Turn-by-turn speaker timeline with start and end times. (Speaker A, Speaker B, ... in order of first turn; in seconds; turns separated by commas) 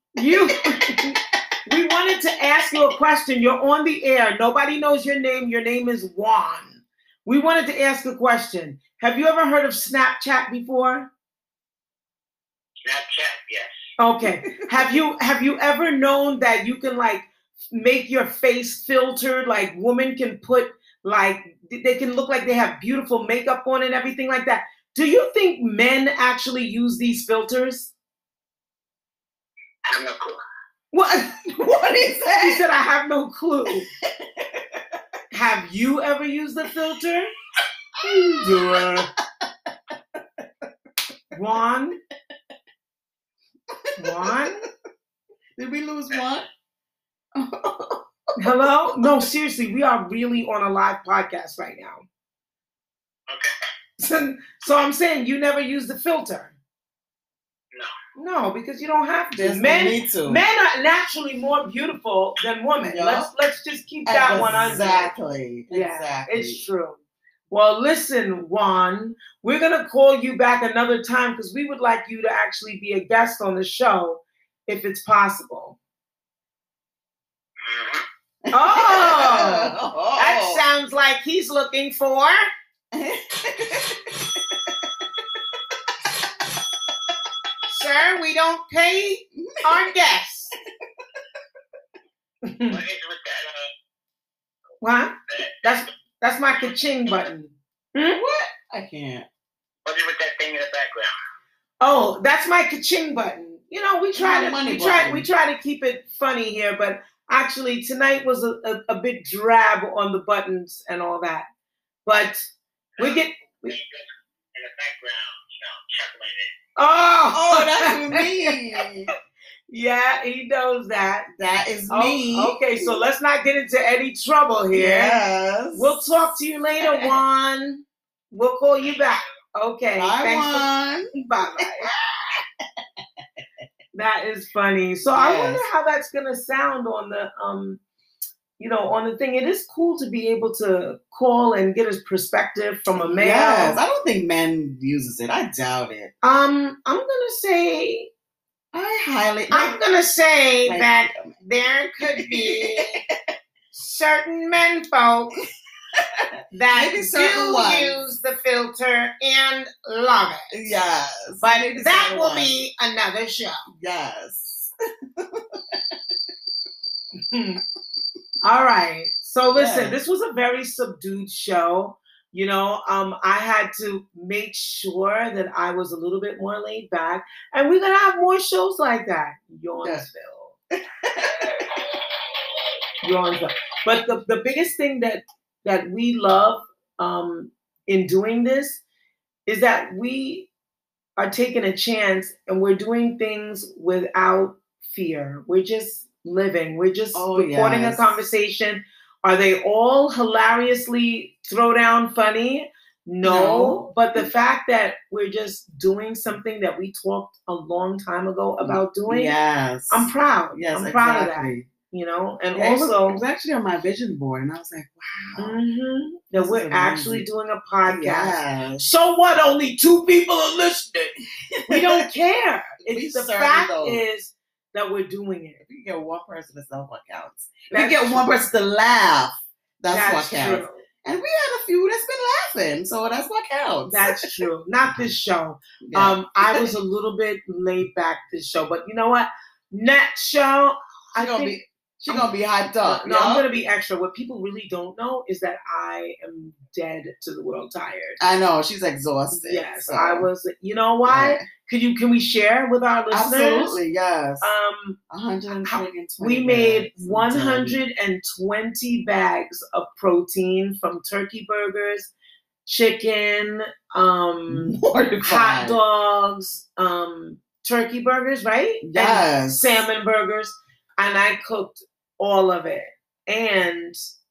Speaker A: 0.1-11.1, Speaker B: 12.8-13.7, Speaker A: 14.0-27.9, Speaker B: 29.9-30.4, Speaker A: 30.9-33.9, Speaker C: 31.6-32.6, Speaker C: 34.2-35.0, Speaker A: 35.3-37.3, Speaker C: 38.0-40.4, Speaker A: 38.3-39.1, Speaker A: 41.3-42.0, Speaker C: 43.7-44.5, Speaker A: 44.0-44.6, Speaker C: 45.6-46.5, Speaker C: 47.3-49.2, Speaker A: 48.4-52.0, Speaker A: 54.0-56.5, Speaker A: 58.1-65.1, Speaker C: 59.3-60.4, Speaker C: 62.8-63.3, Speaker C: 64.0-66.6, Speaker A: 65.7-75.8, Speaker B: 77.6-78.0, Speaker C: 78.5-80.6, Speaker A: 78.5-82.4, Speaker C: 82.9-85.3, Speaker A: 87.7-90.5, Speaker C: 89.4-89.9, Speaker A: 92.4-92.8, Speaker B: 92.7-93.7, Speaker A: 94.8-98.2, Speaker B: 95.3-95.8, Speaker B: 96.6-97.3, Speaker C: 98.1-99.3, Speaker B: 99.8-101.1, Speaker A: 101.8-111.5, Speaker C: 104.2-105.3, Speaker A: 112.0-112.5, Speaker B: 113.0-116.5, Speaker A: 113.0-113.7, Speaker A: 116.8-118.3, Speaker C: 117.3-119.1, Speaker A: 119.7-121.3, Speaker C: 121.3-123.0, Speaker A: 121.9-125.2, Speaker C: 124.7-126.0, Speaker A: 125.7-131.9, Speaker C: 126.8-127.2, Speaker C: 129.9-132.4, Speaker A: 133.9-137.8, Speaker C: 135.1-135.6, Speaker A: 138.6-143.8, Speaker C: 142.9-146.1, Speaker A: 146.2-148.1, Speaker C: 148.7-149.8, Speaker A: 149.5-153.0, Speaker C: 150.7-151.3, Speaker C: 152.2-152.9, Speaker A: 153.7-155.4, Speaker C: 155.9-158.0, Speaker A: 156.5-160.5, Speaker C: 160.5-162.5, Speaker A: 161.4-163.6, Speaker C: 163.7-166.0, Speaker A: 167.3-167.6, Speaker A: 168.4-180.5, Speaker C: 169.5-170.0, Speaker C: 180.8-181.8, Speaker A: 183.0-188.8, Speaker A: 189.5-190.5, Speaker A: 191.2-209.3, Speaker C: 197.1-198.2, Speaker C: 203.2-204.2, Speaker C: 208.6-211.7, Speaker A: 209.9-213.2, Speaker C: 212.5-215.6, Speaker A: 215.4-221.1, Speaker C: 216.3-217.2, Speaker C: 217.8-218.8, Speaker C: 221.5-222.0, Speaker A: 221.7-225.6, Speaker C: 222.8-224.0, Speaker C: 225.6-234.2, Speaker A: 227.7-228.3, Speaker A: 229.9-230.8, Speaker A: 233.9-242.3, Speaker C: 235.9-236.7, Speaker C: 241.1-243.4, Speaker A: 242.8-248.2, Speaker C: 248.2-250.3, Speaker A: 249.3-253.8, Speaker C: 251.1-251.4, Speaker C: 253.1-254.5, Speaker A: 254.4-255.0, Speaker C: 255.1-257.8, Speaker A: 255.6-262.1, Speaker A: 262.6-274.0, Speaker C: 264.5-265.8, Speaker C: 268.8-269.8